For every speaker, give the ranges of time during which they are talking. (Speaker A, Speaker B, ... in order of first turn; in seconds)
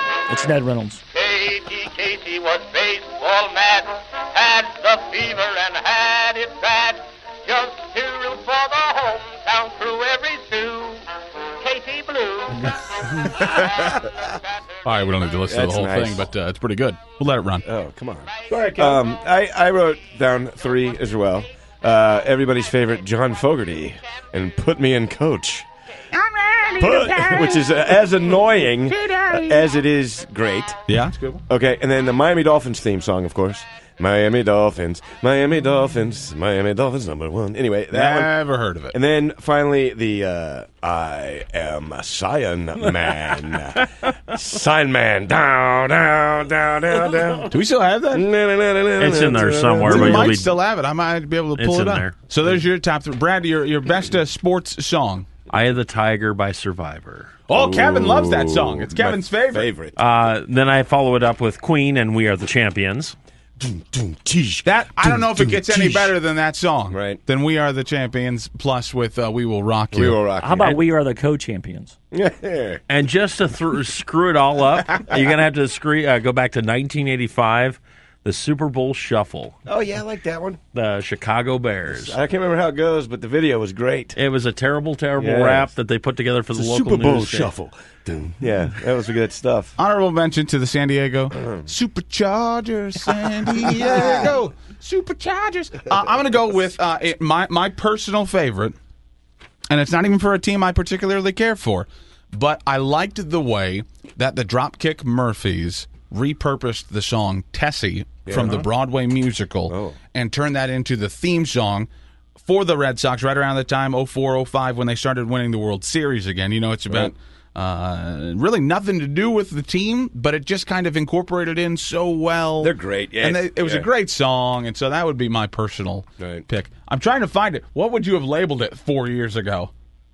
Speaker A: 0.3-1.0, 70.4-71.9
Speaker B: 1.1-11.1, 11.6-12.8
Speaker C: 13.2-14.0, 14.8-17.6, 18.5-19.0, 26.1-27.9, 28.9-29.6, 30.9-31.4, 37.9-38.9, 47.5-48.3, 49.8-55.3, 57.5-59.7, 64.6-70.2, 89.8-98.7, 99.7-129.7
Speaker D: 13.4-13.9, 15.5-16.3, 17.6-25.7, 26.8-30.8, 31.5-38.3, 38.9-47.5, 48.1-50.4, 57.5-60.0, 63.6-66.1, 66.9-67.2, 69.9-70.8, 72.1-72.8, 79.7-80.6, 81.9-84.2, 85.2-85.7, 86.5-89.7, 91.3-91.7, 93.5-94.3, 108.2-108.7, 109.7-110.0, 122.6-123.9, 126.2-126.4
Speaker E: 49.0-50.5, 51.6-52.1, 55.5-57.4, 60.0-63.1, 72.9-79.5, 80.7-82.2, 84.2-87.5